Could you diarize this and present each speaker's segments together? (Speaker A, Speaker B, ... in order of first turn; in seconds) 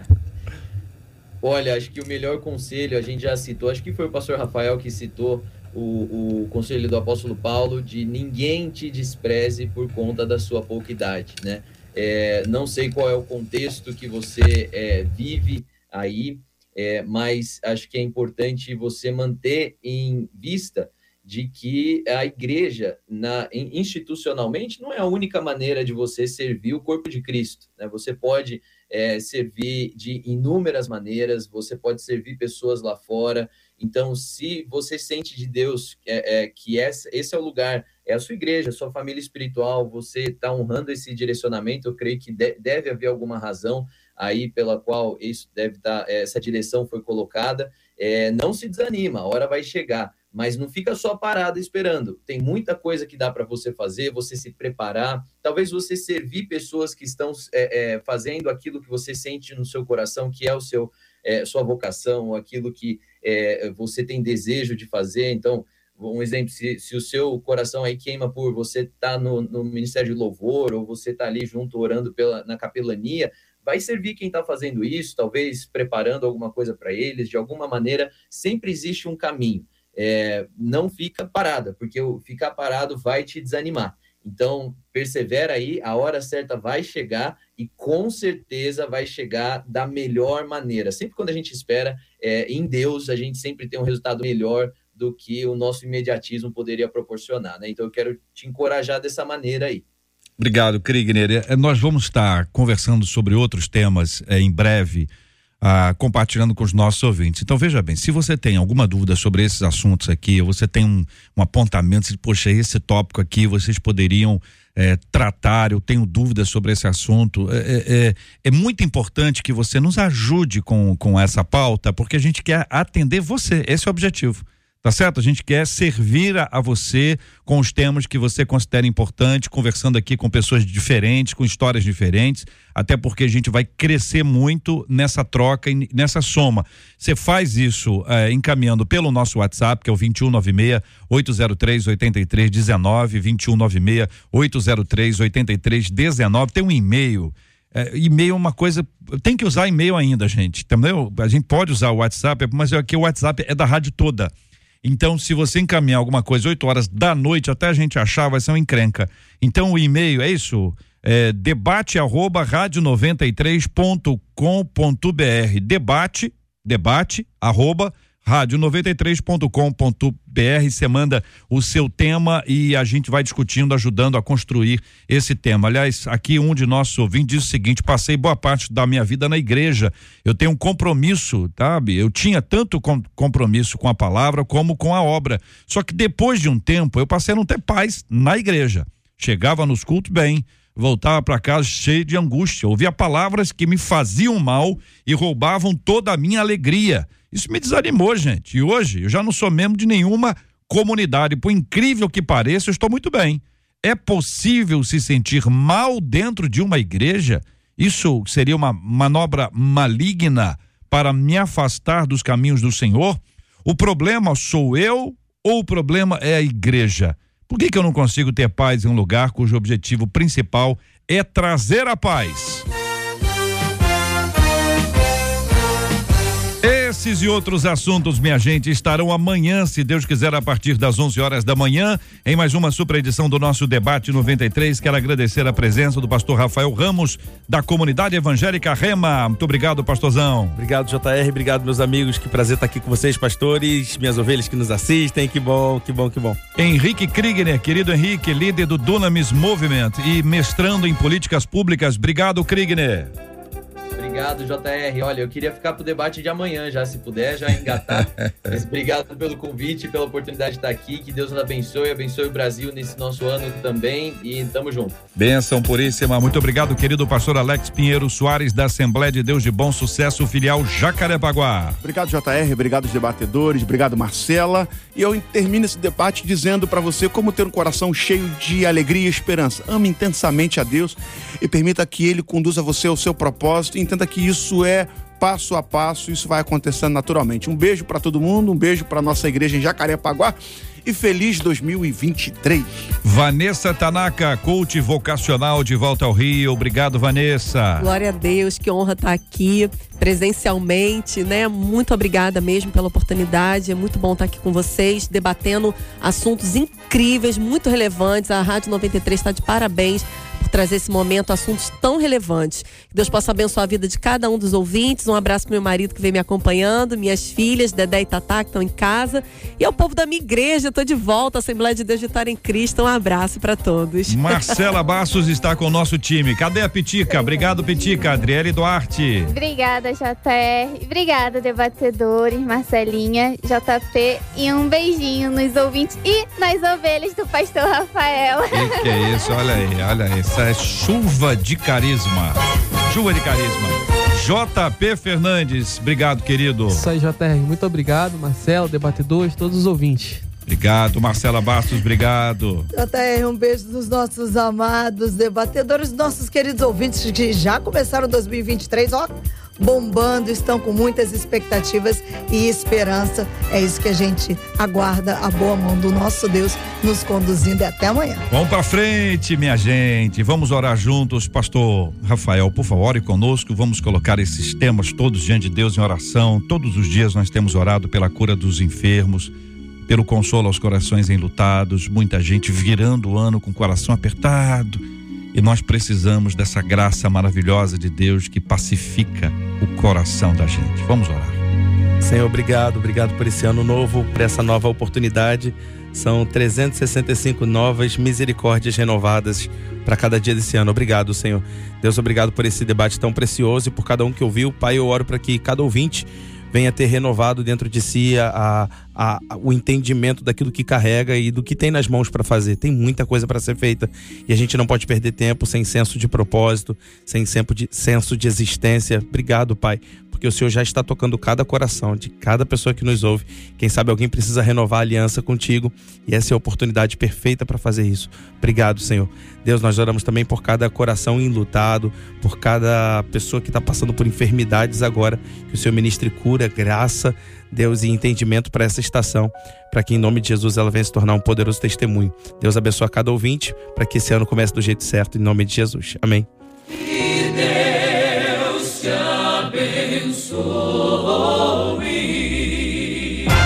Speaker A: 1.4-99.8, 254.0-265.0
Speaker B: 100.4-105.1, 105.6-222.7, 226.6-240.6, 246.6-253.1, 257.9-258.6, 265.2-271.8, 293.0-297.9, 324.1-329.3, 338.5-346.8, 350.5-352.7, 368.3-379.3, 379.9-384.8, 385.3-391.4
Speaker C: 240.6-246.4, 392.0-446.3
Speaker D: 271.8-292.9
Speaker E: 297.8-324.6
Speaker F: 327.1-328.0, 329.3-339.2
Speaker G: 346.7-350.3
Speaker H: 352.7-368.2